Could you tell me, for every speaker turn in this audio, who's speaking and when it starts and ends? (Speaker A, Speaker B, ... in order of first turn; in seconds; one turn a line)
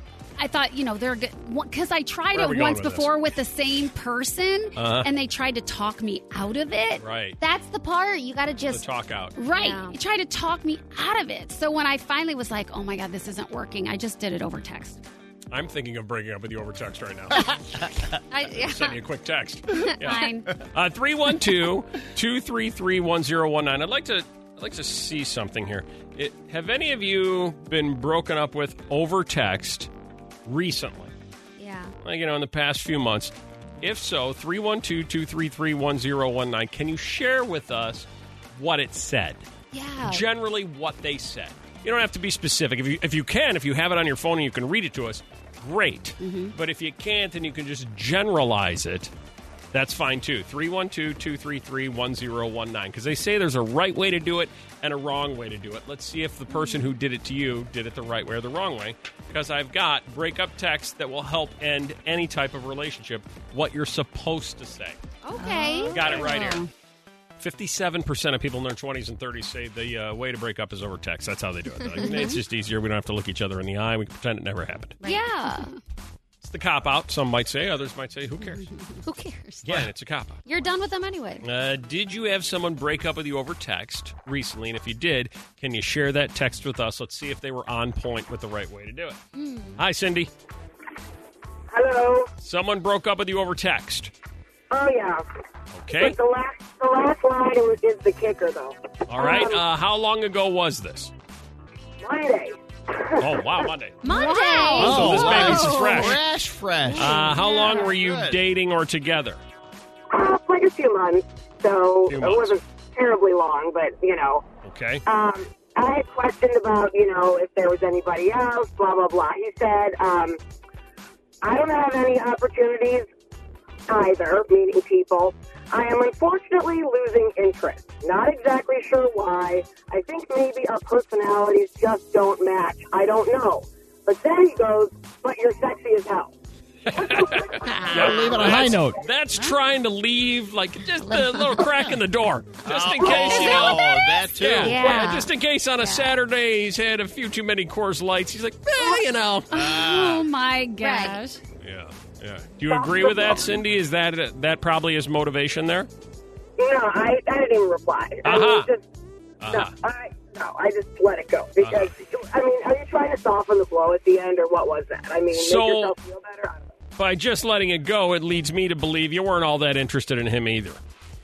Speaker A: 0.4-7.0
Speaker B: 2.3-3.1
Speaker B: 4.8-5.1
Speaker B: 7.0-7.4
Speaker C: 7.4-8.9
Speaker B: 8.7-9.3
Speaker A: 9.4-15.0
Speaker C: 9.5-10.0
Speaker B: 15.5-17.5
Speaker C: 18.3-19.0
Speaker B: 18.5-29.9
Speaker A: 20.0-20.5
Speaker B: 30.5-31.1
Speaker C: 31.6-31.9
Speaker B: 32.0-39.5
Speaker C: 39.7-40.2
Speaker B: 40.0-49.1
Speaker A: 46.2-46.5
Speaker B: 49.7-65.0
Speaker C: 56.5-56.8
Speaker C: 65.2-66.6
Speaker A: 65.3-66.7
Speaker B: 65.9-66.6
Speaker B: 67.4-75.0
Speaker C: 71.9-72.4
Speaker A: 75.0-75.7
Speaker C: 75.0-75.7
Speaker B: 76.4-78.7
Speaker C: 79.0-79.9
Speaker B: 79.7-80.4
Speaker C: 80.5-81.5
Speaker B: 81.4-89.2
Speaker C: 89.3-89.8
Speaker B: 89.8-90.3
Speaker D: 91.7-92.3
Speaker B: 92.4-94.1
Speaker D: 94.7-95.2
Speaker B: 95.7-96.2
Speaker D: 95.9-99.6
Speaker B: 99.1-101.1
Speaker D: 102.0-102.6
Speaker D: 103.1-103.4
Speaker B: 103.2-104.0
Speaker C: 104.0-106.1
Speaker A: 104.1-105.0
Speaker B: 104.8-106.2
Speaker E: 104.8-108.4
Speaker C: 107.0-107.8
Speaker B: 107.0-109.4
Speaker D: 110.1-114.4
Speaker B: 112.1-112.6
Speaker B: 114.6-115.0
Speaker D: 115.0-120.4
Speaker D: 121.4-123.1
Speaker D: 123.9-136.3
Speaker B: 136.8-149.5
Speaker D: 137.0-137.6
Speaker C: 137.7-138.2
Speaker E: 137.9-139.0
Speaker C: 141.0-141.7
Speaker E: 142.6-145.1
Speaker C: 143.1-146.2
Speaker E: 149.5-150.3
Speaker A: 149.5-151.4
Speaker C: 150.8-151.2
Speaker B: 151.6-155.9
Speaker D: 152.6-153.5
Speaker D: 156.6-158.8
Speaker B: 158.2-158.7
Speaker B: 159.4-159.8
Speaker D: 159.5-166.7
Speaker B: 161.6-161.9
Speaker B: 165.3-165.9
Speaker B: 167.0-170.8